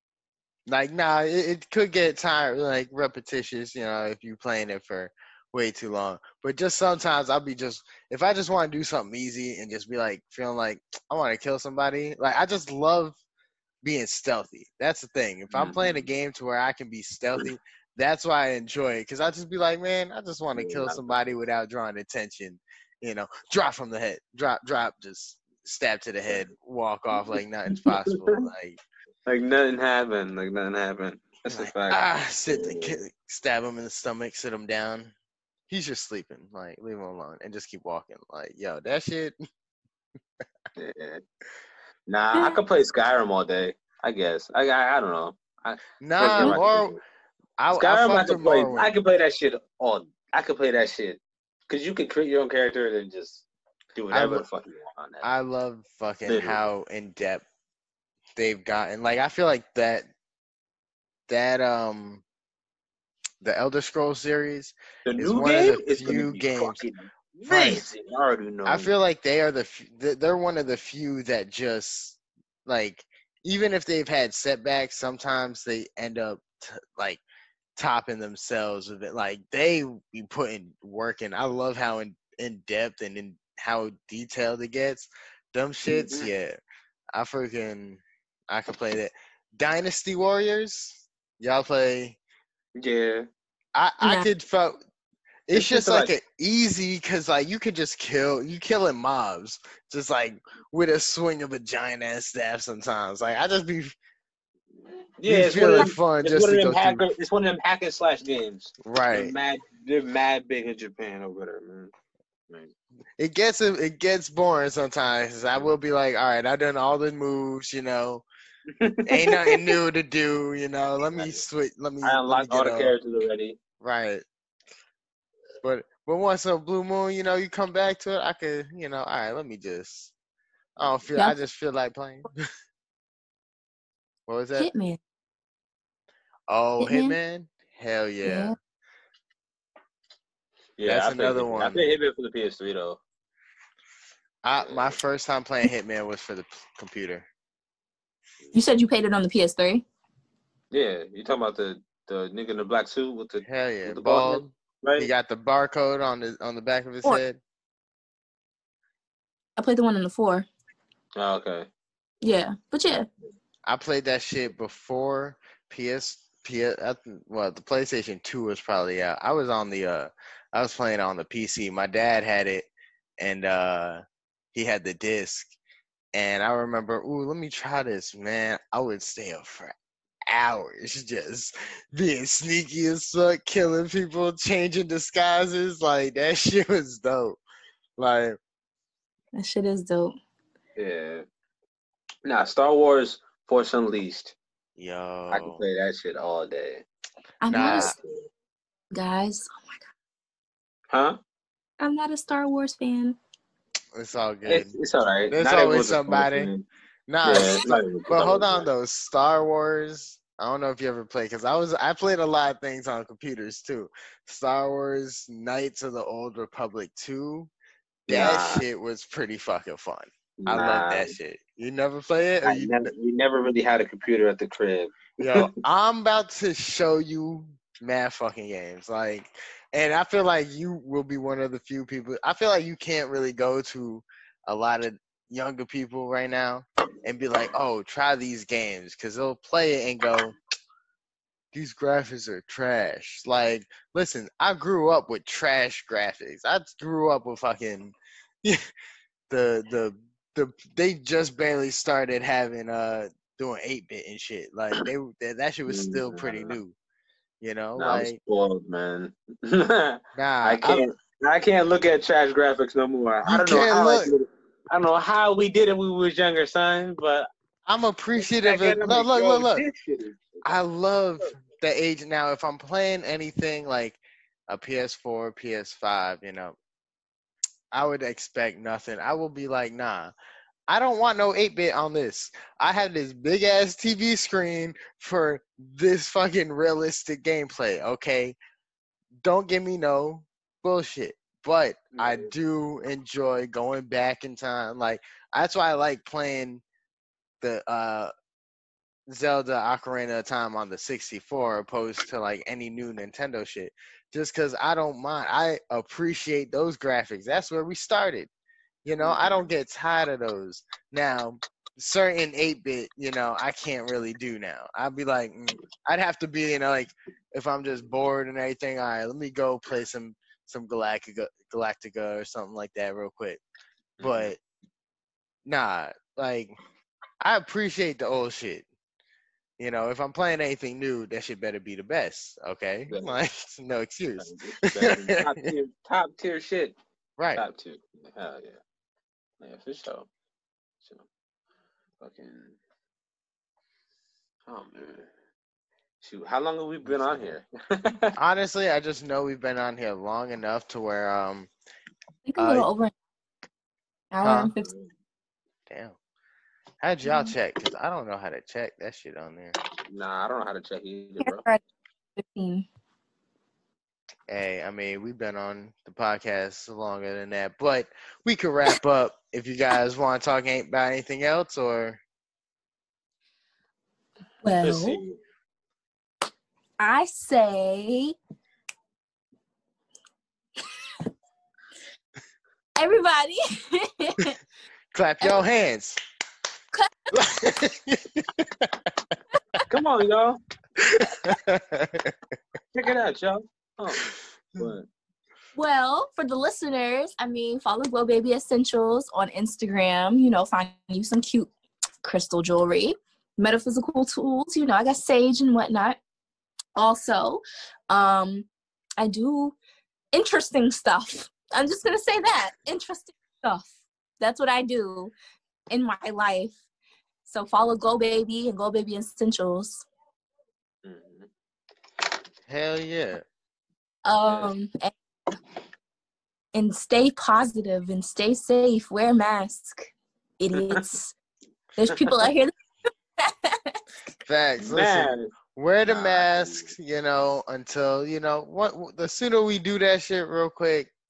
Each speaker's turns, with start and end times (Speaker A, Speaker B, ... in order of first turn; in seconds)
Speaker A: 0.7-13.2, 13.8-28.8, 31.6-35.1, 35.7-39.3, 46.0-47.0, 47.6-48.9, 54.1-54.4, 55.2-57.4, 58.4-60.1, 61.3-62.2, 63.4-66.8, 67.5-67.8, 68.7-77.2, 77.8-86.6, 87.1-92.2, 93.7-94.8, 95.5-103.9, 105.2-107.1, 108.8-109.3, 113.2-118.2, 119.1-122.9, 123.8-124.2, 125.6-130.1, 130.8-132.4, 134.3-134.7, 136.5-138.5, 140.8-141.9, 144.4-147.3, 153.4-157.4, 163.7-174.0, 174.5-175.5, 176.1-179.7, 180.3-187.4, 188.0-188.4, 194.8-195.6, 197.5-197.9, 203.9-204.7, 205.3-206.5, 207.1-217.5, 218.1-222.9, 225.2-240.3, 241.5-248.6, 249.3-256.7, 257.4-258.1, 260.1-260.8, 263.2-264.1, 267.6-269.6, 270.4-276.6, 277.7-280.1, 280.7-288.4, 289.2-296.6, 297.4-298.1, 299.1-308.3, 308.8-323.4, 324.0-324.4, 325.4-326.6, 327.2-328.6, 329.6-335.5, 337.2-337.4, 346.8-347.3, 348.1-351.5, 352.4-352.7, 354.2-354.5, 355.7-355.9, 356.8-359.5, 364.3-372.0, 384.9-386.0, 387.1-389.6, 390.8-392.1, 422.5-423.2, 434.2-440.9
Speaker B: 15.5-16.1, 20.6-21.2, 27.7-28.4, 29.2-33.0, 40.8-41.2, 42.1-47.0, 47.7-53.4, 53.9-55.3, 56.3-56.6, 65.0-68.9, 85.8-86.3, 92.8-93.3, 95.5-96.1, 105.2-111.9, 118.8-119.8, 121.1-121.4, 122.0-123.6, 130.8-131.1, 140.8-143.0, 144.6-144.9, 150.7-155.1, 161.2-161.7, 190.8-191.2, 192.2-194.3, 195.3-196.8, 197.5-198.3, 200.9-201.2, 204.4-206.6, 207.2-208.6, 218.1-218.6, 220.4-221.1, 222.4-225.5, 255.7-256.6, 257.8-267.3, 268.2-270.5, 291.9-292.3, 309.0-309.4, 324.0-324.3, 332.9-333.2, 334.2-336.7, 337.3-338.6, 339.4-340.1, 342.0-342.6, 344.5-345.1, 346.0-348.1, 354.6-354.9, 359.9-361.4, 374.6-375.2, 389.7-390.4, 392.7-394.9, 420.8-421.3, 424.2-424.5, 430.5-430.8, 431.9-432.3, 434.6-435.3, 435.8-436.7
Speaker C: 42.3-42.6, 94.0-94.3, 134.5-135.0, 136.8-137.2, 138.2-138.6, 148.5-149.8, 159.6-160.5, 162.2-163.1, 189.3-190.2, 197.4-197.9, 198.9-199.8, 201.8-203.2, 207.3-207.6, 352.2-352.9, 354.1-354.7, 357.0-357.3, 361.2-361.6, 362.1-362.7, 374.4-375.0, 376.8-378.1, 382.8-384.4, 386.7-387.2, 395.5-401.5, 402.0-406.0, 406.8-409.6, 410.1-415.1, 415.7-416.6, 417.2-419.9, 424.0-424.9, 426.5-431.1, 431.8-432.5, 433.2-433.8